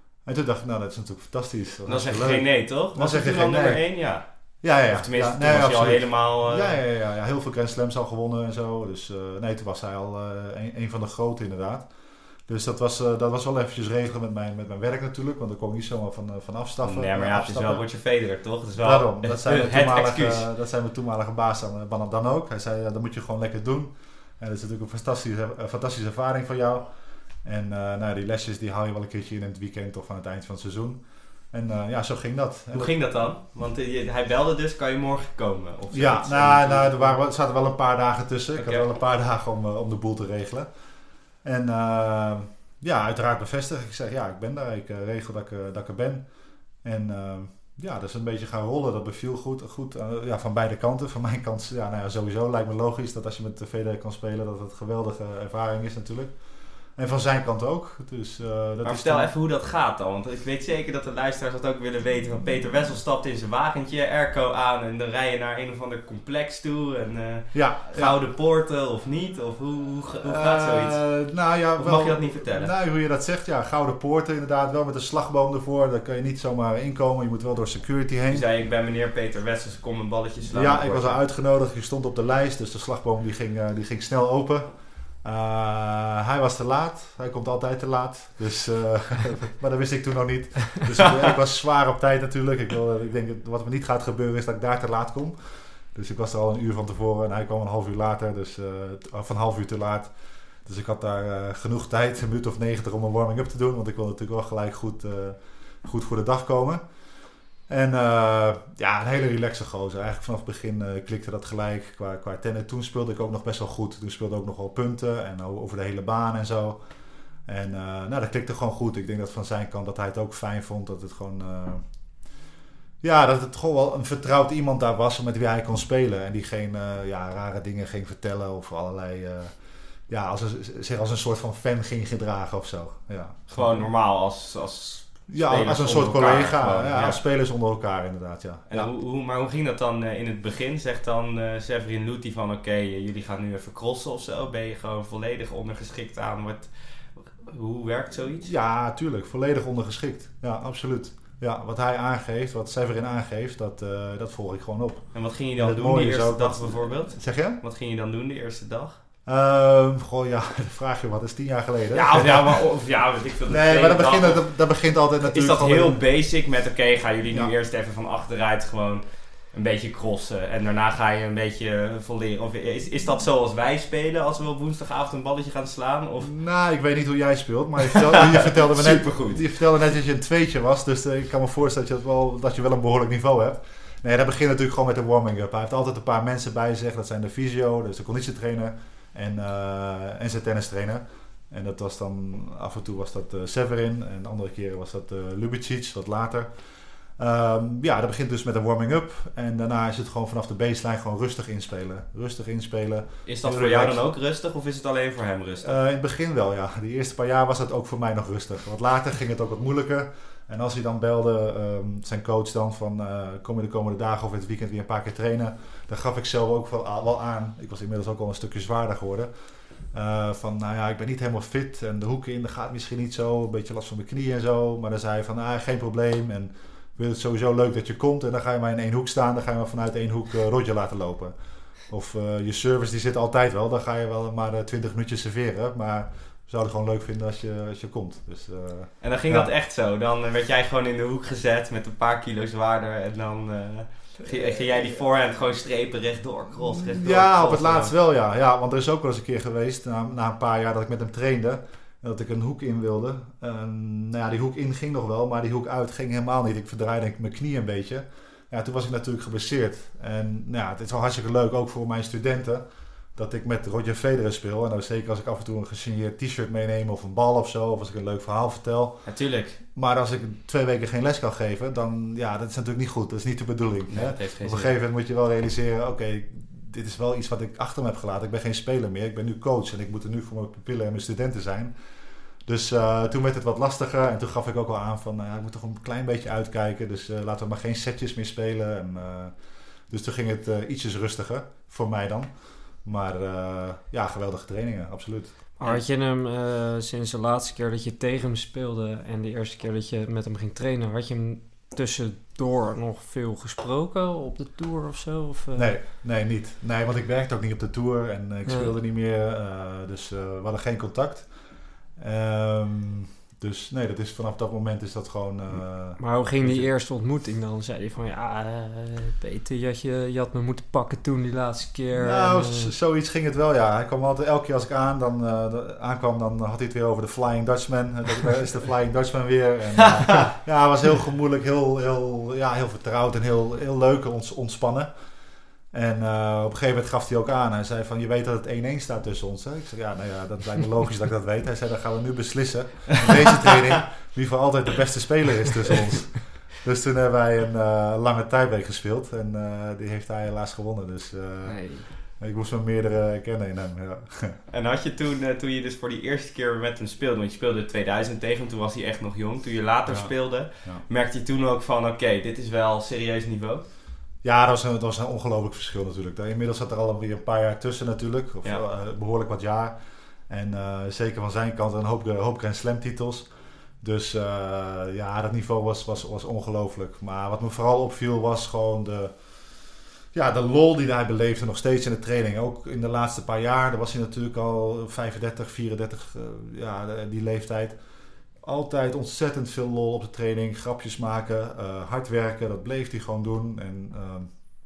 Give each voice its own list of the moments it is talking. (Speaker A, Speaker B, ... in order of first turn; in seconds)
Speaker A: 0.2-3.9, 4.6-11.9, 12.5-17.8, 18.8-26.9, 27.4-31.0, 31.5-32.9, 35.9-40.7, 41.4-46.2, 46.8-59.3, 67.5-68.2, 70.2-78.5, 80.5-100.1, 100.6-106.8, 107.7-116.8, 117.5-121.8, 123.0-129.6, 130.1-133.8, 135.3-138.9, 148.4-157.6, 159.2-162.7, 163.5-166.0, 176.2-204.0, 205.6-219.3, 219.9-239.5, 246.6-269.1, 269.7-281.7, 282.4-289.3, 289.9-295.3, 305.5-316.7, 321.9-334.9, 335.7-354.4, 359.9-360.8, 364.2-369.8, 370.3-373.3, 373.8-379.2, 380.1-387.8, 388.4-394.3
Speaker B: 1.9-4.2, 4.8-6.8, 16.8-20.5, 32.7-37.2, 38.5-38.8, 58.8-71.1, 71.8-72.7, 78.3-81.2, 133.5-137.2, 138.7-148.5, 155.1-159.0, 161.9-164.6, 165.2-176.3, 177.9-179.4, 203.2-205.8, 239.0-247.9, 269.0-269.6, 273.9-274.7, 354.5-363.6
Speaker C: 295.6-305.8, 308.4-308.7, 316.0-322.7, 351.4-351.9